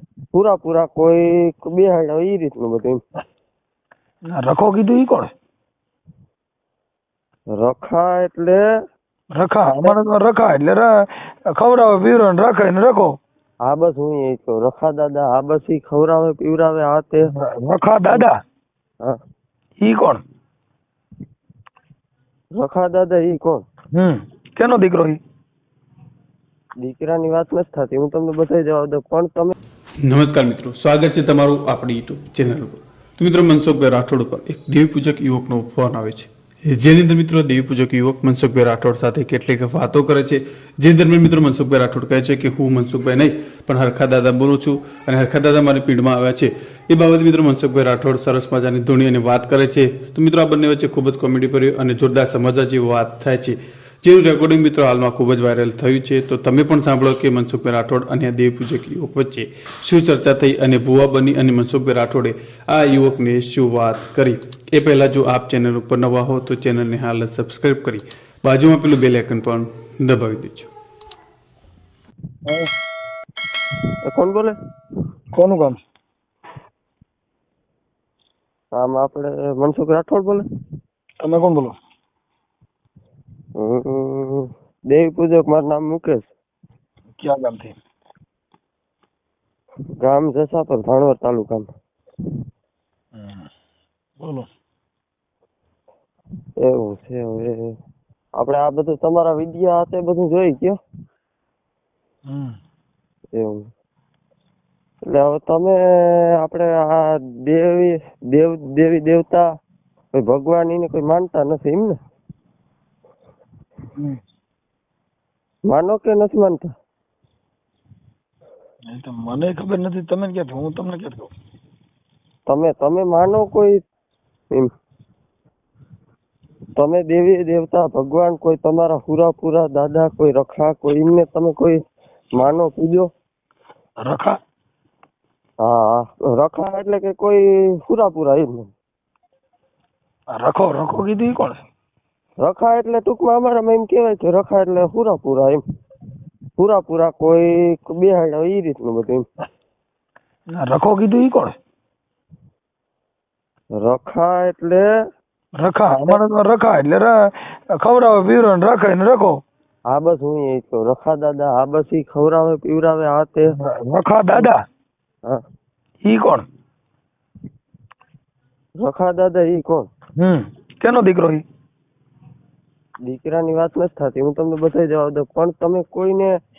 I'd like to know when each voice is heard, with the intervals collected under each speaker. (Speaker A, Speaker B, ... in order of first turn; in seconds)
Speaker A: 0.3-3.0, 7.6-8.7, 9.7-10.0, 13.6-17.3, 22.6-23.6, 26.8-29.5, 74.0-74.5, 78.7-80.4, 83.6-86.3, 90.0-91.7, 96.6-97.8, 98.4-100.8, 103.3-103.7, 105.1-109.5, 110.1-112.0, 115.7-116.7, 122.5-123.8, 126.8-131.8, 132.4-133.1, 135.6-138.7, 142.4-145.6, 146.6-149.3, 153.8-154.9, 155.9-156.2, 159.9-163.5, 168.8-169.9, 173.0-176.4
Speaker B: 4.3-5.3, 9.4-13.2, 17.3-18.4, 19.8-20.2, 23.9-25.2, 75.3-75.8, 81.2-81.8, 87.2-87.8, 93.2-93.5, 94.2-94.5, 102.3-102.5, 118.9-121.3, 134.0-134.4, 140.3-141.6, 150.6-151.6, 155.6-159.4, 163.6-164.6, 166.0-166.5, 170.2-171.4
Speaker C: 30.1-70.7